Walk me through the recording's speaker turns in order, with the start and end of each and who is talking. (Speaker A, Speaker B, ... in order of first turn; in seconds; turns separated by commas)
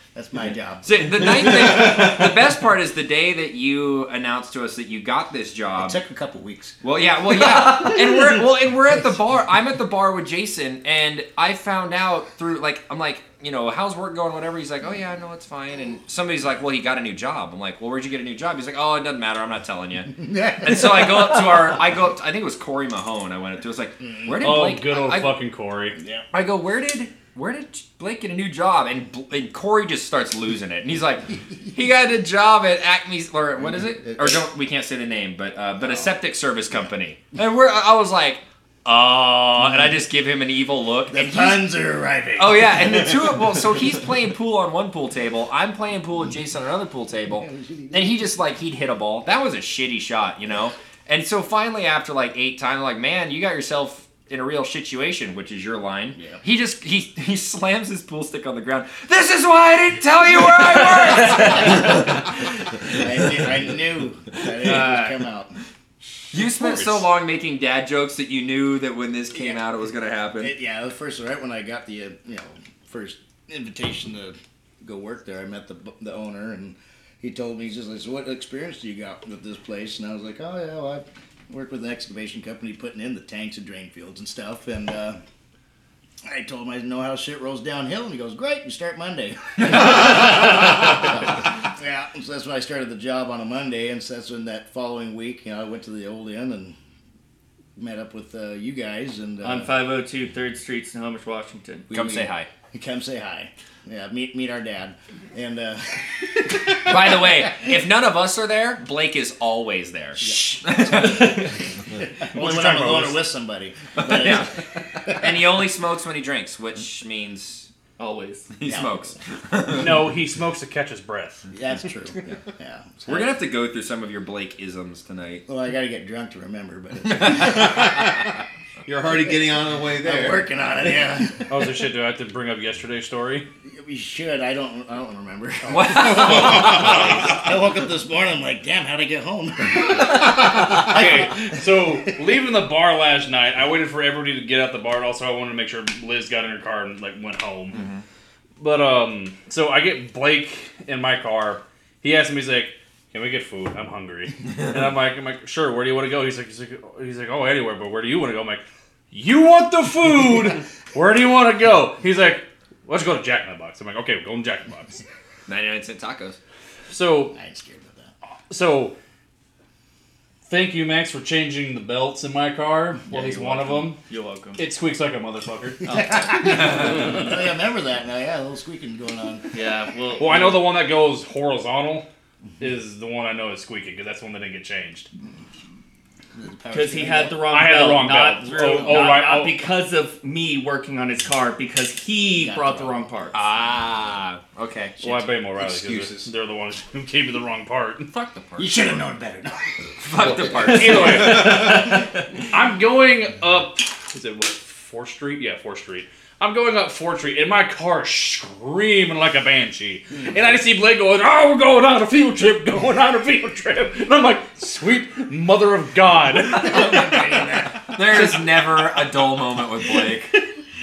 Speaker A: 0.1-0.9, Speaker B: 0.8-6.0, Speaker C: 1.6-2.1, Speaker A: 5.8-6.8, Speaker B: 6.8-25.3, Speaker A: 20.1-21.3, Speaker A: 24.0-24.4, Speaker D: 24.4-26.0, Speaker A: 26.0-26.2, Speaker B: 26.3-41.6, Speaker A: 33.7-34.5, Speaker A: 35.8-36.1, Speaker A: 41.1-43.4, Speaker B: 42.4-62.0, Speaker A: 47.4-48.1, Speaker A: 56.2-56.4, Speaker E: 61.4-61.7, Speaker A: 61.7-62.3, Speaker A: 62.8-65.5, Speaker E: 64.6-65.1, Speaker B: 66.3-70.5, Speaker A: 69.3-69.6, Speaker A: 70.4-85.2, Speaker A: 86.3-96.8, Speaker A: 97.8-99.7, Speaker E: 99.4-101.9, Speaker A: 101.9-107.7, Speaker B: 101.9-102.5, Speaker B: 106.8-111.5, Speaker A: 110.2-111.4, Speaker E: 111.0-111.5, Speaker A: 112.0-115.3, Speaker D: 112.3-113.2, Speaker B: 114.0-114.5, Speaker B: 115.1-117.7, Speaker E: 118.0-118.6, Speaker B: 118.5-120.0, Speaker A: 118.7-119.1, Speaker D: 119.8-121.5, Speaker A: 121.5-123.3, Speaker B: 123.1-125.4, Speaker A: 125.5-128.2, Speaker C: 127.6-127.9, Speaker C: 128.9-130.5, Speaker A: 130.0-131.7, Speaker D: 131.5-133.5, Speaker A: 133.7-141.8, Speaker B: 135.7-137.4, Speaker D: 139.9-147.9, Speaker B: 147.7-148.0, Speaker D: 148.6-165.0, Speaker B: 165.5-166.4, Speaker D: 166.9-167.3, Speaker A: 167.3-168.1, Speaker D: 168.5-169.0, Speaker D: 170.5-174.0, Speaker E: 173.1-174.6, Speaker D: 174.6-175.9, Speaker E: 175.8-177.1, Speaker A: 175.9-179.5, Speaker D: 176.7-177.0, Speaker E: 179.5-180.7, Speaker D: 180.2-182.1, Speaker D: 182.6-185.1, Speaker A: 186.3-187.6, Speaker E: 186.7-193.4, Speaker D: 187.5-189.6, Speaker A: 188.8-189.2, Speaker A: 192.4-193.1, Speaker B: 193.3-195.2, Speaker D: 195.0-198.1, Speaker C: 195.5-196.3, Speaker B: 198.1-198.7, Speaker A: 198.6-200.8, Speaker B: 200.0-201.5, Speaker D: 200.6-217.6, Speaker E: 200.7-202.0, Speaker A: 216.5-217.8, Speaker B: 217.9-220.3